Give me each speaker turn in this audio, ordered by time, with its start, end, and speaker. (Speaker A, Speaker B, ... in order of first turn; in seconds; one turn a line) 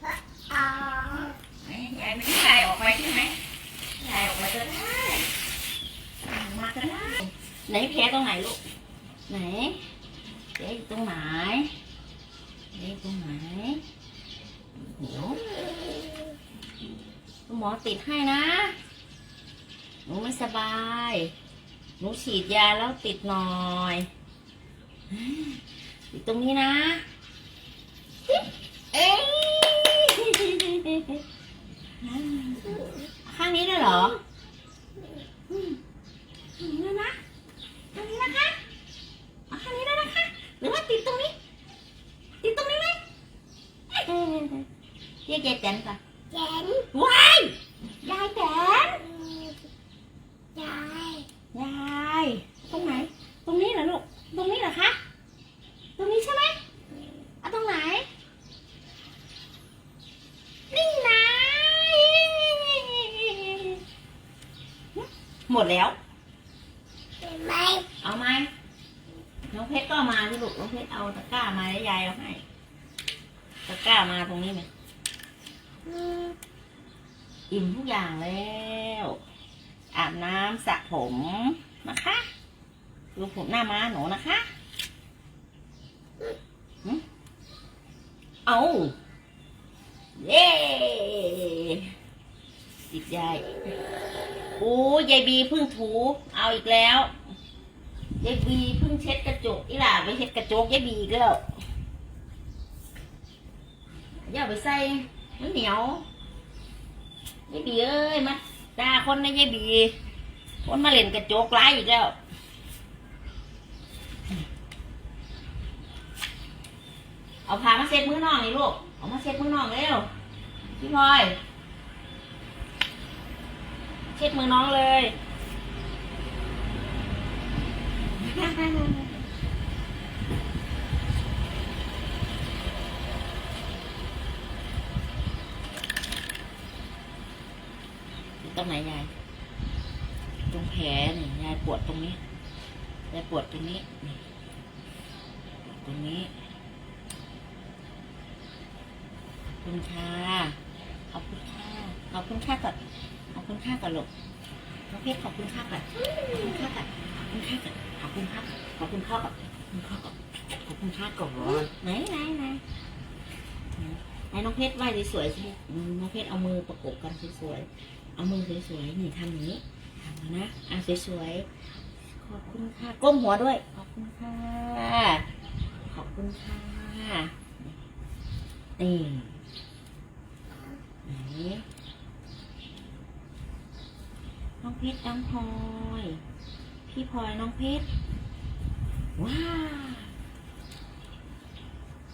Speaker A: 0.5-1.3
Speaker B: 1.6-3.4
Speaker B: 4.0-5.3
Speaker B: 6.2-8.6
Speaker B: 9.3-9.8
Speaker B: 10.6-11.7
Speaker B: 12.7-13.8
Speaker B: 14.8-15.4
Speaker B: 17.5-18.8
Speaker B: 20.1-21.3
Speaker B: 22.0-24.1
Speaker B: 25.1-27.0
Speaker B: 28.9-31.2
Speaker B: 32.0-34.2
Speaker B: 35.5-35.8
Speaker B: 36.6-37.2
Speaker B: 37.9-38.6
Speaker B: 39.5-41.3
Speaker B: 42.4-43.0
Speaker B: 43.9-44.7
Speaker B: 45.3-46.0
Speaker A: 46.3-46.9
Speaker B: 46.9-49.1
Speaker A: 49.3-49.5
Speaker A: 50.5-51.2
Speaker B: 51.5-55.0
Speaker B: 56.0-56.6
Speaker B: 57.4-58.1
Speaker B: 60.7-63.8
Speaker B: 65.0-66.0
Speaker A: 67.2-67.8
Speaker B: 68.0-68.5
Speaker B: 69.5-72.4
Speaker B: 73.7-74.7
Speaker A: 75.9-76.3
Speaker B: 77.5-79.2
Speaker B: 79.9-82.3
Speaker B: 83.2-84.5
Speaker B: 88.5-88.9
Speaker B: 90.2-91.9
Speaker B: 92.9-93.5
Speaker B: 94.6-97.1
Speaker B: 98.2-101.4
Speaker B: 104.2-106.0
Speaker B: 107.5-110.0
Speaker B: 110.6-112.2
Speaker B: 117.5-120.1
Speaker B: 120.8-121.4
Speaker B: 124.2-125.2
Speaker B: 128.2-129.2
Speaker B: 138.4-139.1
Speaker B: 140.5-142.2
Speaker B: 143.1-144.2
Speaker B: 145.6-146.3
Speaker B: 149.5-150.6
Speaker B: 151.1-152.8
Speaker B: 153.3-154.1
Speaker B: 154.9-162.6
Speaker B: 163.8-171.5
Speaker B: 172.2-175.3
Speaker B: 175.9-177.8
Speaker B: 178.8-179.4
Speaker B: 181.1-181.7
Speaker B: 184.6-186.2
Speaker B: 186.9-187.9
Speaker B: 189.2-190.1